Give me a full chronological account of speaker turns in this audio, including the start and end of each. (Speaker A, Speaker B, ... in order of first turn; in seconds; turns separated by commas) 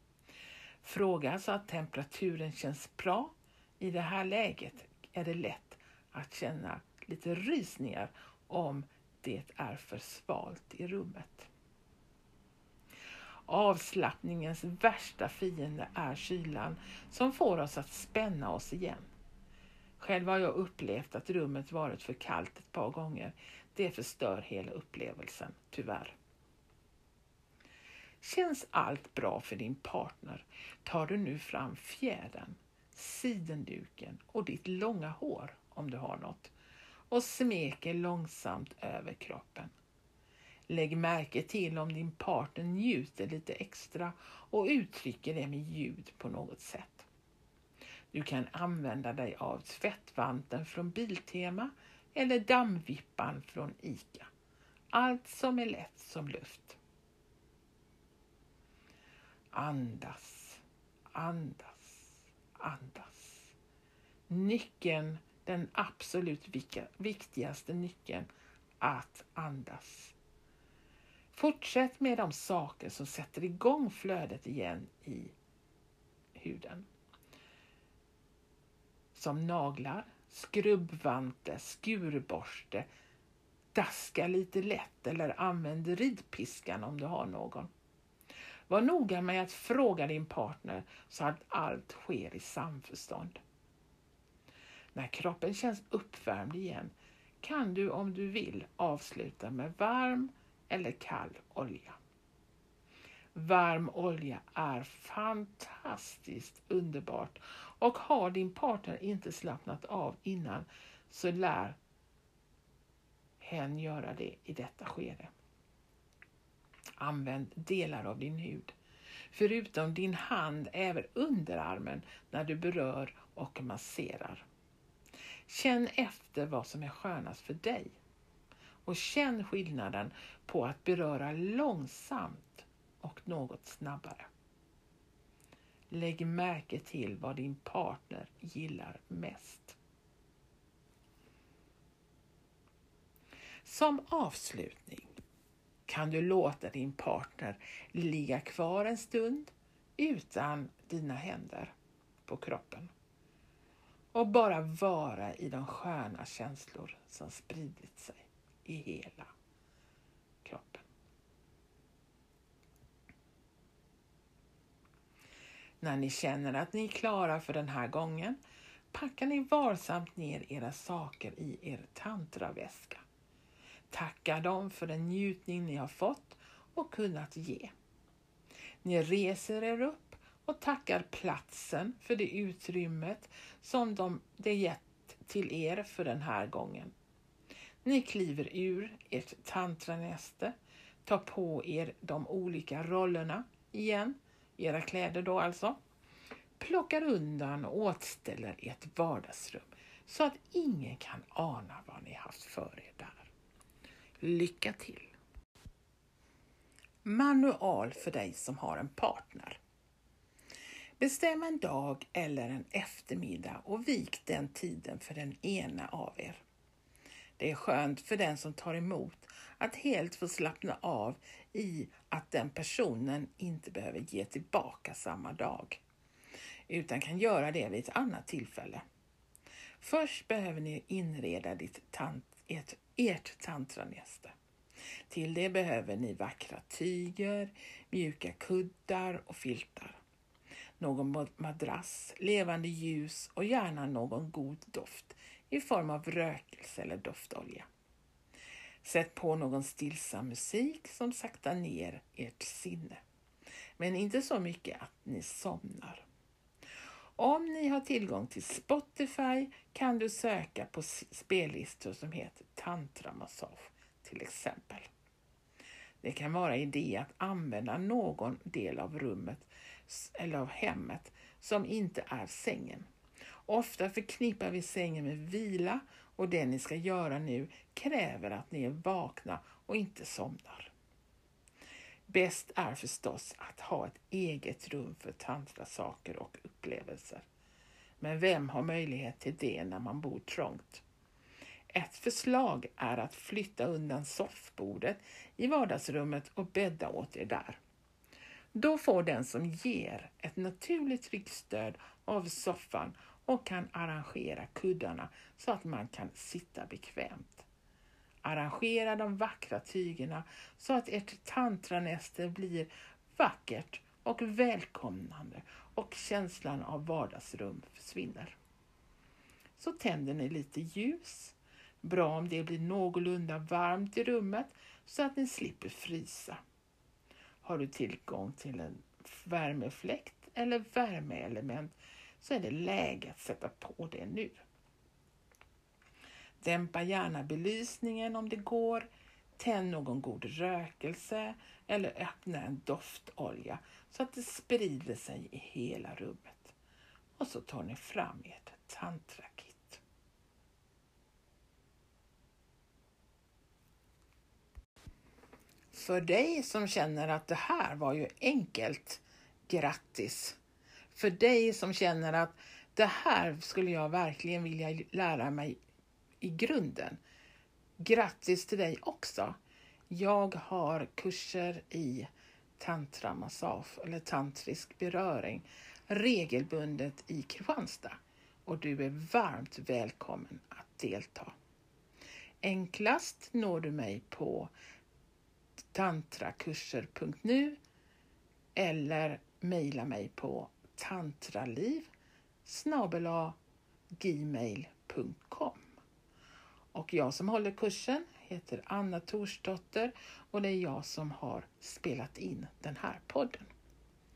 Speaker A: 0.8-11.5, Speaker A: 13.5-19.1, Speaker A: 20.0-26.1, Speaker A: 28.2-36.5, Speaker A: 37.1-39.7, Speaker A: 40.7-47.1, Speaker A: 48.1-54.3, Speaker A: 54.9-56.8, Speaker A: 59.5-60.6, Speaker A: 61.1-63.5, Speaker A: 64.3-68.3, Speaker A: 68.8-70.2, Speaker A: 71.3-75.3, Speaker A: 76.3-76.9, Speaker A: 79.2-82.9, Speaker A: 83.7-87.7, Speaker A: 88.7-93.4, Speaker A: 94.9-102.0, Speaker A: 103.3-111.8, Speaker A: 113.4-115.3, Speaker A: 117.0-118.8, Speaker A: 119.3-124.5, Speaker A: 125.5-128.0, Speaker A: 128.8-134.3, Speaker A: 135.9-139.8, Speaker A: 143.6-145.1, Speaker A: 145.9-151.7, Speaker A: 152.3-152.9, Speaker A: 154.1-159.3, Speaker A: 160.4-160.8, Speaker A: 165.8-168.4, Speaker A: 168.9-173.0, Speaker A: 173.9-177.7, Speaker A: 178.8-186.9, Speaker A: 187.8-195.8, Speaker A: 196.6-203.3, Speaker A: 204.2-205.1, Speaker A: 207.0-209.6, Speaker A: 211.0-216.4, Speaker A: 217.4-225.8, Speaker A: 226.7-228.8, Speaker A: 229.8-234.3, Speaker A: 235.1-240.0, Speaker A: 240.8-247.7, Speaker A: 248.8-253.0, Speaker A: 253.8-256.1, Speaker A: 257.2-264.9, Speaker A: 266.0-272.9, Speaker A: 273.5-280.7, Speaker A: 282.1-287.2, Speaker A: 288.0-290.8, Speaker A: 291.7-297.6, Speaker A: 298.5-307.5, Speaker A: 308.2-318.4, Speaker A: 319.6-326.4, Speaker A: 327.4-334.4, Speaker A: 336.4-338.9, Speaker A: 339.4-346.6, Speaker A: 347.2-349.8, Speaker A: 355.7-360.4, Speaker A: 360.9-365.6, Speaker A: 366.2-367.0, Speaker A: 367.8-369.4, Speaker A: 369.9-381.3, Speaker A: 382.4-384.5, Speaker A: 385.7-387.6, Speaker A: 388.6-391.9, Speaker A: 392.4-393.4, Speaker A: 394.0-395.7, Speaker A: 396.7-403.5